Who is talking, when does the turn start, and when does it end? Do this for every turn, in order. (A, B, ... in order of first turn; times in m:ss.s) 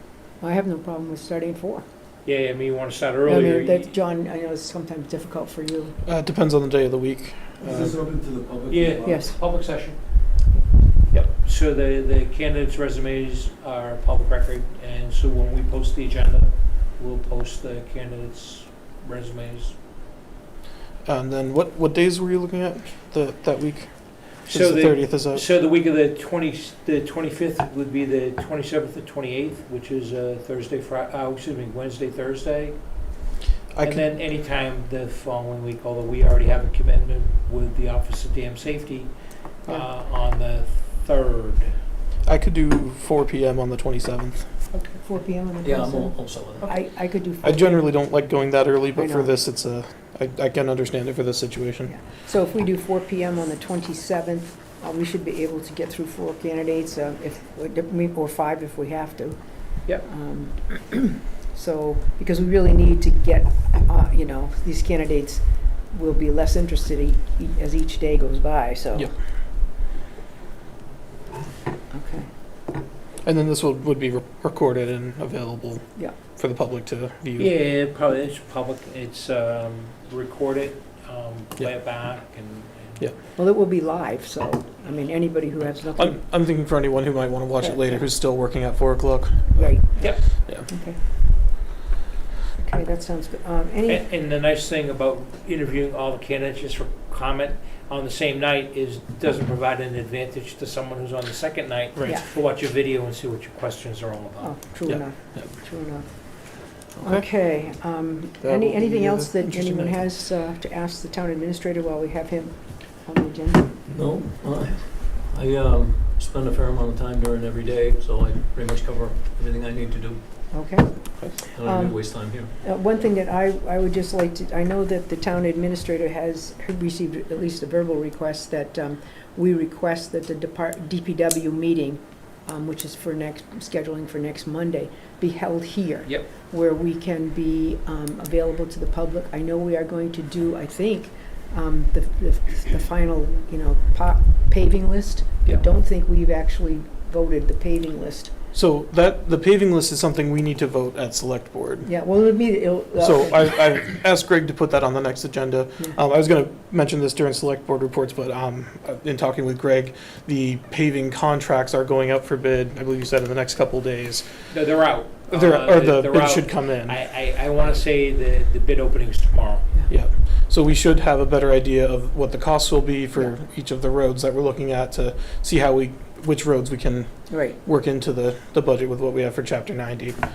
0:00.4-0:01.8 A
0:02.2-0:03.9 B
0:03.2-0:06.0 A
0:06.0-0:08.0 C
0:07.6-0:09.3 D
0:08.7-0:10.0 B
0:09.0-0:09.4 A
0:11.1-0:19.8 B
0:21.0-0:25.4 C
0:24.4-0:32.8 B
0:33.7-0:34.0 C
0:33.8-0:41.7 B
0:42.2-0:44.6 C
0:44.7-0:45.0 B
0:45.0-0:47.8 A
0:45.6-0:46.7 D
0:47.4-0:51.9 C
0:49.0-0:49.3 A
0:51.9-0:59.4 A
1:00.0-1:09.1 A
1:11.9-1:12.3 A
1:13.2-1:17.5 C
1:17.4-1:23.1 B
1:21.6-1:22.0 C
1:23.4-1:26.2 A
1:25.9-1:30.7 C
1:27.6-1:28.0 A
1:29.5-1:31.0 A
1:32.5-1:34.0 A
1:33.9-1:44.5 B
1:44.4-1:53.7 A
1:44.8-1:45.5 C
1:47.0-1:47.3 C
1:48.4-1:50.0 C
1:53.9-2:00.2 D
2:00.5-2:28.3 A
2:01.5-2:02.5 D
2:28.5-2:31.9 C
2:31.8-2:33.5 A
2:33.0-2:44.3 C
2:44.5-2:49.6 B
2:45.3-2:47.0 C
2:49.9-3:00.2 C
2:57.3-2:57.6 A